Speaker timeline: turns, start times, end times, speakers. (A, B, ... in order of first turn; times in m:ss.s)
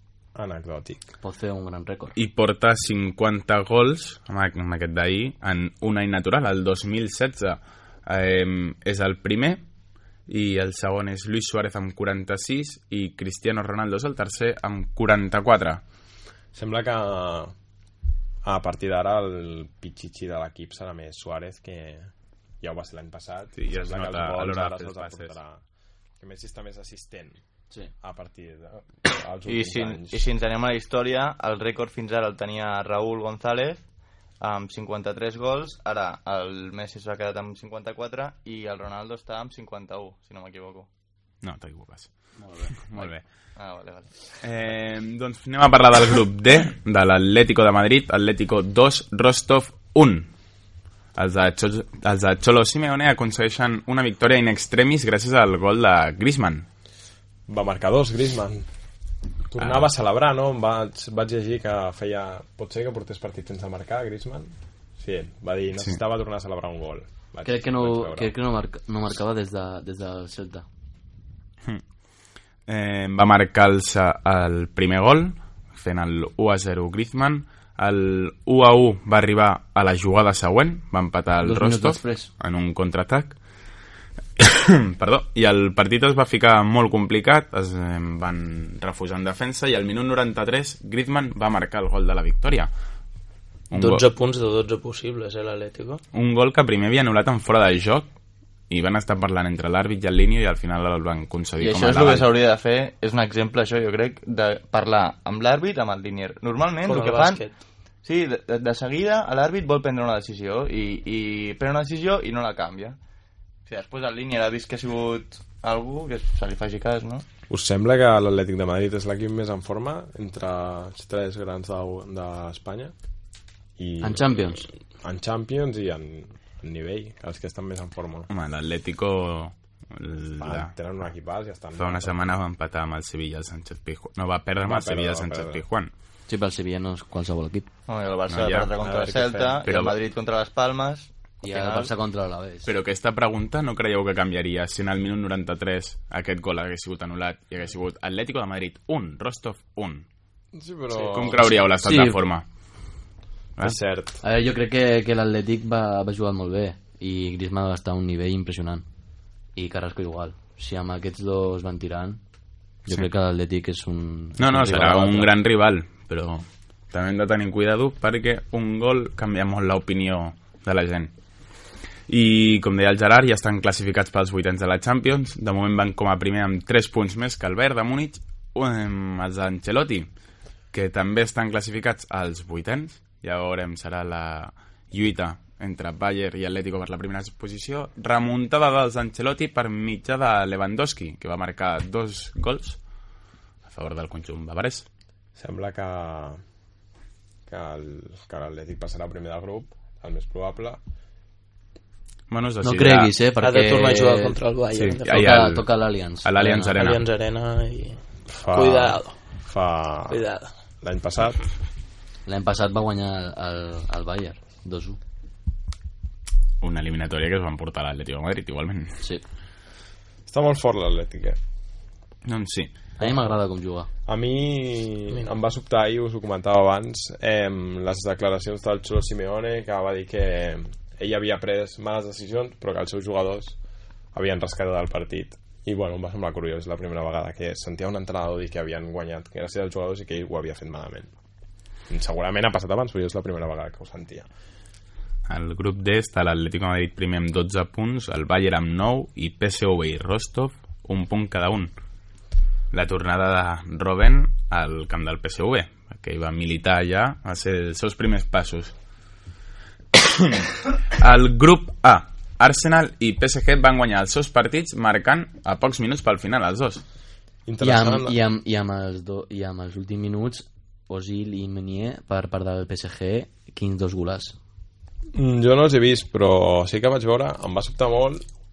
0:00.4-0:01.0 A
0:01.2-0:02.1 B
0:02.2-0:09.6 C
0:10.3-0:15.8 C
0:16.5-0:17.5 A
0:18.4-0:25.6 A
0:23.6-0:25.3 C
0:26.2-0:27.4 A
0:28.0-0:30.3 A
0:29.5-0:33.8 D
0:34.4-0:40.9 D
0:41.4-0:42.1 C
0:42.4-0:43.0 B
0:42.8-0:43.2 C
0:43.6-0:44.2 D
0:44.4-0:50.3 C
0:51.2-0:56.6 C
0:57.5-0:58.7 A
0:59.5-1:08.3 A
0:59.6-0:59.9 C
1:07.4-1:10.6 B
1:12.7-1:23.4 C
1:21.4-1:22.3 B
1:24.4-1:32.7 C
1:33.7-1:34.0 C
1:33.7-1:36.0 E
1:36.1-1:38.1 C
1:38.7-1:42.3 C
1:41.6-1:47.4 D
1:46.8-1:47.6 E
1:48.0-1:53.0 D
1:53.7-1:57.2 D
1:57.5-2:02.9 A
2:03.8-2:08.3 A
2:04.0-2:04.7 B
2:08.3-2:10.7 C
2:10.4-2:12.2 A
2:11.8-2:15.9 C
2:14.6-2:15.6 A
2:16.3-2:17.7 B
2:17.9-2:21.9 D
2:18.3-2:18.7 C
2:18.8-2:19.7 A
2:19.6-2:20.0 C
2:21.4-2:22.7 B
2:22.6-2:30.1 C
2:30.5-2:31.6 A
2:30.9-2:32.4 C
2:31.8-2:32.2 B
2:33.6-2:34.2 A
2:34.2-2:38.8 B
2:39.6-2:42.2 B
2:42.9-2:45.3 B
2:44.4-2:51.1 C
2:52.1-3:00.1 C
3:00.7-3:12.8 C
3:13.6-3:14.9 C
3:15.4-3:16.4 A
3:17.5-3:20.8 A
3:22.3-3:23.1 C
3:22.6-3:24.4 B
3:23.4-3:25.4 E
3:24.7-3:25.7 C
3:25.0-3:26.8 B
3:26.2-3:27.0 C
3:26.8-3:28.0 E
3:28.3-3:30.2 A
3:28.5-3:29.2 E
3:30.1-3:30.5 E
3:30.8-3:31.4 A
3:32.3-3:35.0 B
3:36.6-3:39.0 C
3:40.3-3:41.4 A
3:42.2-3:42.7 C
3:43.0-3:43.9 B
3:44.1-3:53.6 A
3:54.1-4:01.1 A
4:01.9-4:04.3 A
4:05.3-4:11.7 C
4:12.7-4:18.7 C
4:19.9-4:26.8 C
4:27.4-4:28.2 A
4:27.6-4:34.4 B
4:35.1-4:38.2 A